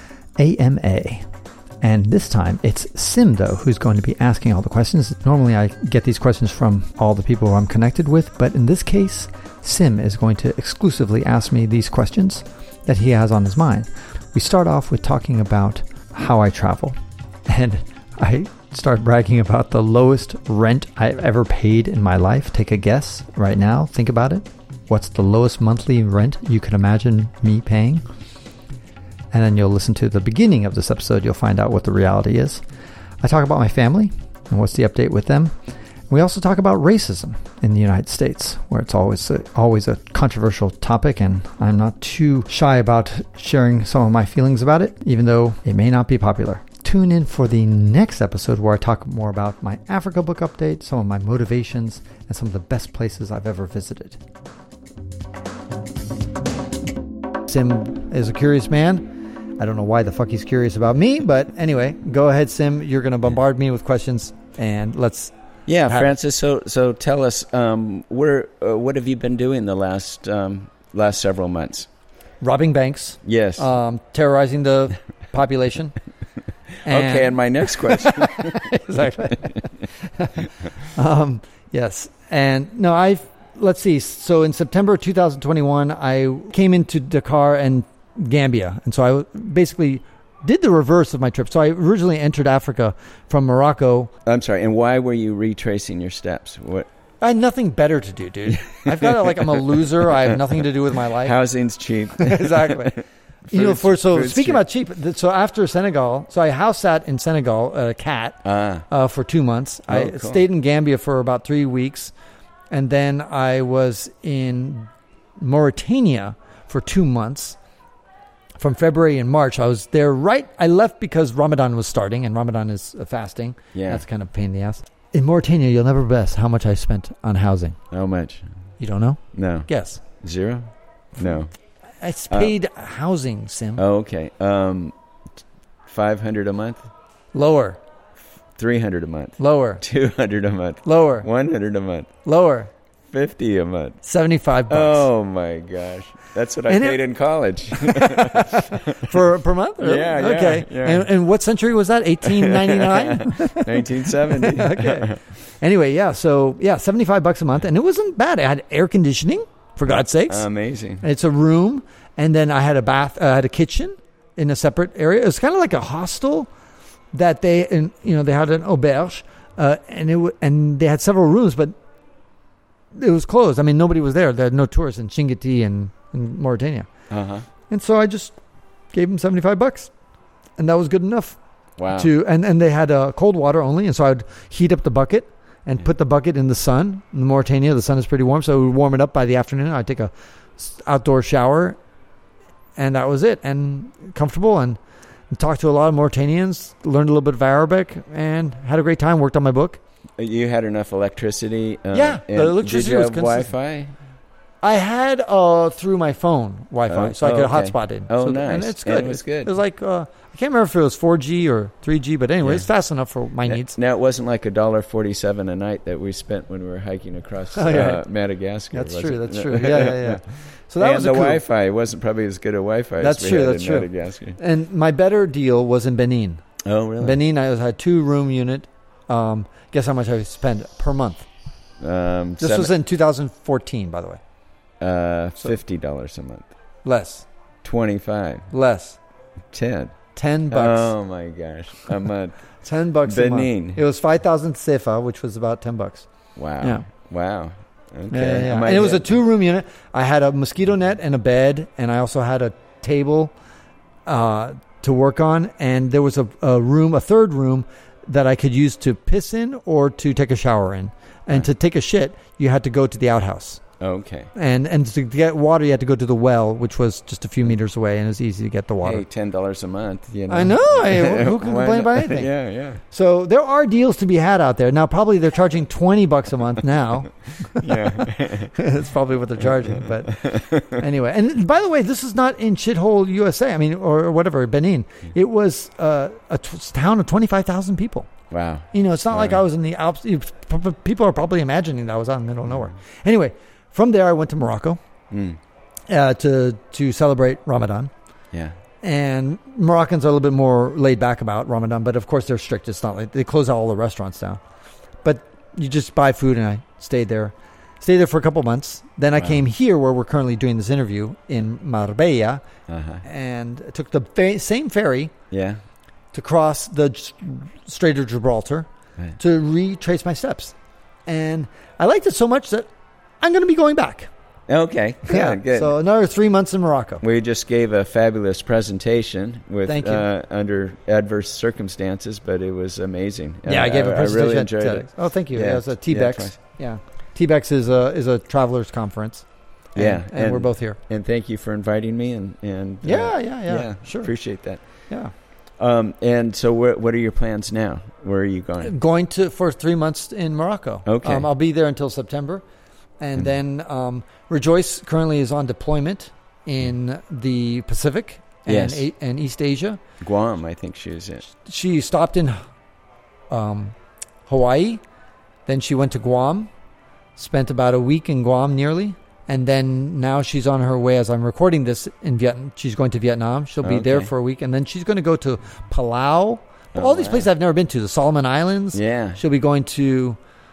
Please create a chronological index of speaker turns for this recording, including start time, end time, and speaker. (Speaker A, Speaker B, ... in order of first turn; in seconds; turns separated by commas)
Speaker A: 0.4-1.3, Speaker A: 1.8-16.9, Speaker A: 17.5-28.0, Speaker A: 29.3-32.6, Speaker A: 33.2-35.5, Speaker A: 36.1-54.2, Speaker A: 57.5-59.1, Speaker A: 59.6-65.3, Speaker B: 65.7-71.9, Speaker A: 65.9-66.1, Speaker A: 72.4-76.0, Speaker B: 73.2-73.7, Speaker A: 76.8-94.1, Speaker B: 76.9-78.8, Speaker B: 94.2-96.9, Speaker A: 97.2-101.4, Speaker B: 101.2-104.6, Speaker A: 102.1-112.1, Speaker B: 108.5-108.9, Speaker B: 109.9-110.5, Speaker A: 112.7-117.6, Speaker A: 118.6-127.8, Speaker B: 123.7-124.0, Speaker B: 127.9-128.5, Speaker A: 128.8-130.0, Speaker B: 129.3-129.7, Speaker B: 130.2-131.5, Speaker A: 132.0-133.8, Speaker B: 133.8-134.9, Speaker B: 135.9-136.8, Speaker A: 137.3-137.8, Speaker B: 138.6-142.1, Speaker A: 139.4-139.8, Speaker A: 140.8-141.3, Speaker A: 142.2-142.7, Speaker B: 143.1-144.0, Speaker A: 144.0-145.1, Speaker B: 144.7-149.2, Speaker A: 146.7-147.0, Speaker A: 147.7-160.5, Speaker B: 149.8-151.1, Speaker B: 152.2-155.2, Speaker B: 159.9-161.1, Speaker A: 161.0-166.5, Speaker A: 167.1-171.7, Speaker A: 172.9-176.9, Speaker B: 177.1-177.5, Speaker A: 177.7-178.3, Speaker A: 178.9-179.9, Speaker A: 180.6-191.8, Speaker B: 181.8-182.1, Speaker A: 192.8-194.8, Speaker A: 195.3-199.8, Speaker B: 200.2-203.9, Speaker A: 201.9-203.5, Speaker A: 204.6-213.8, Speaker B: 206.9-209.5, Speaker B: 213.4-220.2, Speaker A: 217.5-218.1, Speaker A: 218.7-221.4, Speaker B: 220.8-224.4, Speaker A: 223.0-226.4, Speaker B: 226.7-227.2, Speaker A: 227.0-231.3, Speaker B: 231.8-232.7, Speaker A: 232.4-234.2, Speaker B: 234.8-236.5, Speaker A: 236.8-237.3, Speaker B: 237.6-238.5, Speaker A: 238.5-239.0, Speaker B: 239.5-239.9, Speaker A: 240.2-240.9, Speaker B: 240.5-242.4, Speaker A: 242.6-246.1, Speaker B: 243.1-243.8, Speaker B: 246.4-249.1, Speaker A: 246.6-246.9, Speaker A: 248.1-253.3, Speaker A: 254.1-263.6, Speaker B: 263.8-264.3, Speaker A: 264.3-269.0, Speaker B: 268.8-272.8, Speaker A: 270.3-272.3, Speaker A: 272.9-288.1, Speaker B: 277.6-278.5, Speaker B: 280.2-280.5, Speaker B: 288.3-289.4, Speaker A: 288.7-294.8, Speaker B: 295.1-295.4, Speaker A: 295.9-297.9, Speaker A: 298.8-304.4, Speaker A: 305.0-312.4, Speaker B: 312.7-313.0, Speaker A: 313.0-315.1, Speaker B: 315.3-315.6, Speaker A: 316.1-318.7, Speaker A: 319.2-320.6, Speaker A: 321.1-322.7, Speaker A: 323.2-324.1, Speaker B: 324.5-325.7, Speaker A: 325.1-327.0, Speaker B: 327.0-336.4, Speaker A: 329.7-330.1, Speaker A: 333.5-340.8, Speaker B: 339.8-344.6, Speaker A: 342.8-344.1, Speaker B: 345.6-348.7, Speaker A: 348.6-352.4, Speaker B: 350.9-351.3, Speaker A: 353.0-359.8, Speaker B: 358.5-358.9, Speaker B: 360.0-361.3, Speaker A: 361.3-362.4, Speaker A: 363.3-363.8, Speaker A: 364.3-364.8, Speaker A: 365.5-366.5, Speaker A: 367.2-380.2, Speaker B: 373.6-374.1, Speaker B: 376.7-377.3, Speaker B: 378.7-379.2